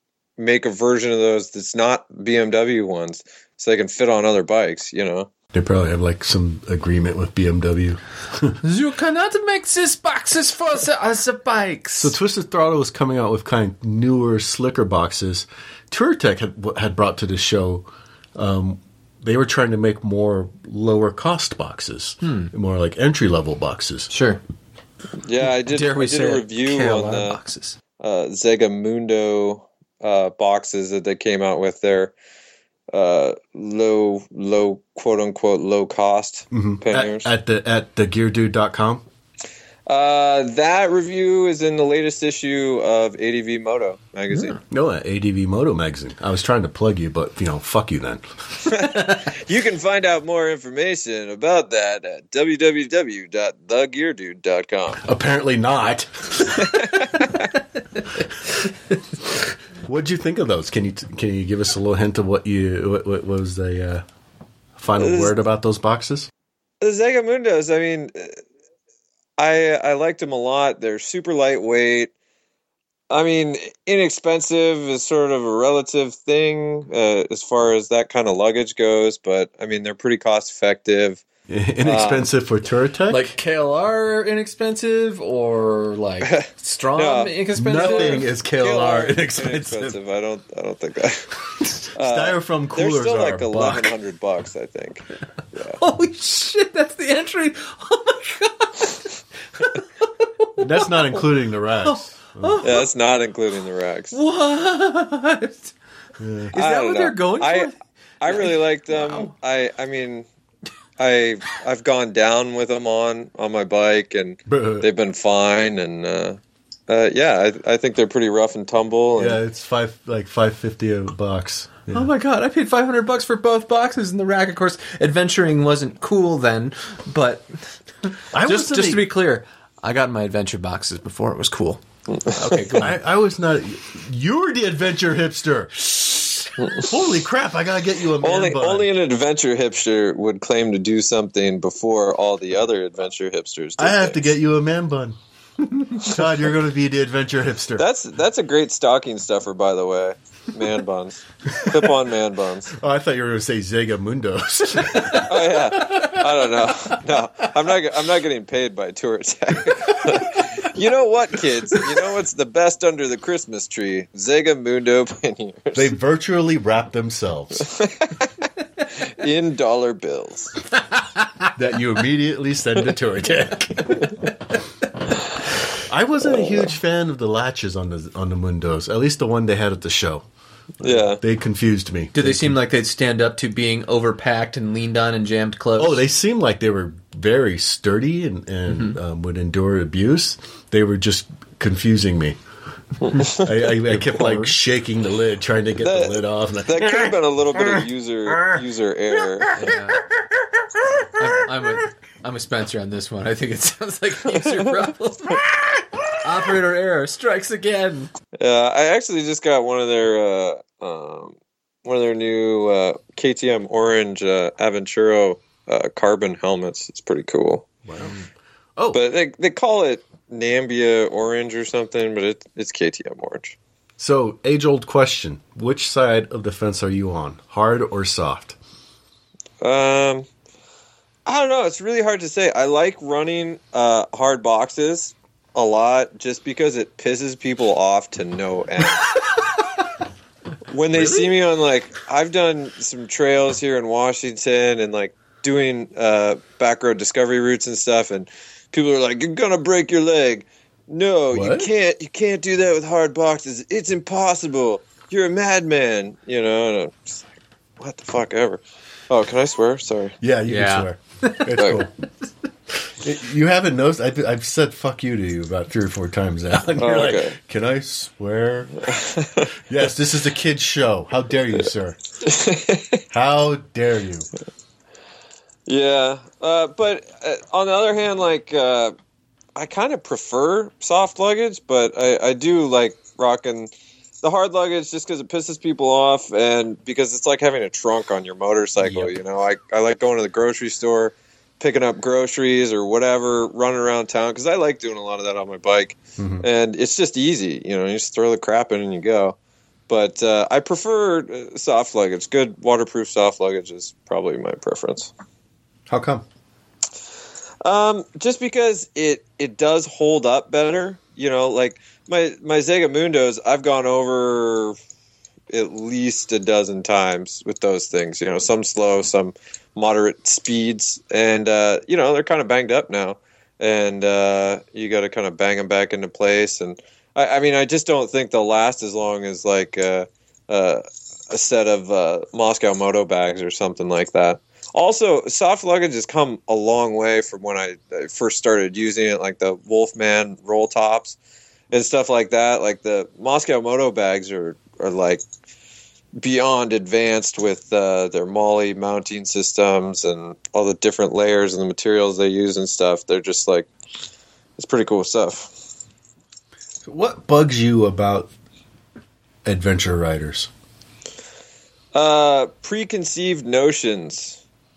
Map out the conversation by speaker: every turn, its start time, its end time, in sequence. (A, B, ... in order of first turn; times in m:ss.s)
0:00.4-0:05.3 A
0:05.5-0:08.6 B
0:08.6-0:12.2 C
0:12.0-0:24.1 B
0:22.2-0:22.5 C
0:24.1-0:24.4 C
0:25.2-0:27.4 A
0:25.4-0:27.8 C
0:28.0-0:32.1 A
0:32.9-0:37.3 A
0:36.5-0:39.0 B
0:39.9-0:44.6 A
0:44.3-0:44.6 C
0:44.7-0:48.2 B
0:48.6-0:55.0 A
0:55.0-0:56.9 B
0:56.5-0:57.4 A
0:59.8-1:04.0 B
1:04.8-1:06.3 B
1:05.0-1:05.3 A
1:06.8-1:08.4 A
1:09.4-1:12.1 A
1:13.1-1:21.2 A
1:21.5-1:23.2 B
1:21.8-1:22.3 A
1:23.1-1:28.2 C
1:26.2-1:31.3 A
1:27.5-1:30.0 B
1:31.9-1:35.8 A
1:31.9-1:33.9 B
1:35.7-1:40.9 C
1:40.6-1:42.6 B
1:41.8-1:42.9 C
1:42.6-1:44.2 A
1:44.1-1:45.7 C
1:46.2-1:46.6 B
1:46.5-1:47.7 C
1:46.6-1:50.2 A
1:48.2-1:49.3 C
1:51.0-1:59.4 A
1:54.5-1:54.9 B
1:59.2-2:02.1 B
2:01.9-2:07.5 C
2:08.3-2:09.1 B
2:08.4-2:13.0 C
2:12.2-2:12.6 A
2:12.8-2:18.9 B
2:16.6-2:16.9 A
2:18.2-2:24.3 A
2:23.8-2:27.9 B
2:27.8-2:32.7 A
2:31.5-2:31.9 B
2:32.7-2:37.5 B
2:34.9-2:35.2 C
2:35.2-2:45.9 A
2:40.0-2:40.5 B
2:45.7-2:47.7 B
2:47.6-2:48.3 A
2:49.0-2:50.6 A
2:50.9-2:51.5 C
2:51.5-2:54.1 B
2:55.7-3:00.2 B
3:00.8-3:02.6 B
3:00.8-3:01.2 A
3:02.1-3:06.0 C
3:05.8-3:12.4 B
3:08.7-3:08.9 C
3:13.0-3:13.6 A
3:13.1-3:17.1 B
3:14.1-3:14.5 C
3:15.8-3:19.8 A
3:19.5-3:20.1 C
3:21.1-3:25.4 C
3:24.3-3:24.8 A
3:26.2-3:28.1 C
3:28.4-3:37.7 A
3:37.8-3:39.0 B
3:38.9-3:43.6 A
3:44.0-3:48.6 B
3:49.6-3:50.3 A
3:51.2-3:59.2 A
4:00.7-4:17.2 A
4:11.3-4:11.7 B
4:17.8-4:20.2 A
4:20.2-4:21.9 B
4:20.4-4:21.5 C
4:21.6-4:21.8 A
4:22.9-4:29.0 B
4:26.8-4:27.4 A
4:28.8-4:29.5 A
4:29.6-4:32.0 B
4:32.2-4:33.0 A
4:33.1-4:34.3 B
4:35.7-4:38.9 A
4:39.6-4:59.4 A
4:48.8-4:49.1 C
4:56.2-4:56.4 B
4:59.9-5:05.1 A
5:05.9-5:06.2 B
5:07.6-5:14.8 A
5:15.5-5:41.2 A
5:41.7-5:45.2 A
5:46.2-5:53.7 A
5:54.6-5:55.5 A
5:56.8-5:58.3 B
5:59.4-6:00.5 B
6:01.9-6:04.4 A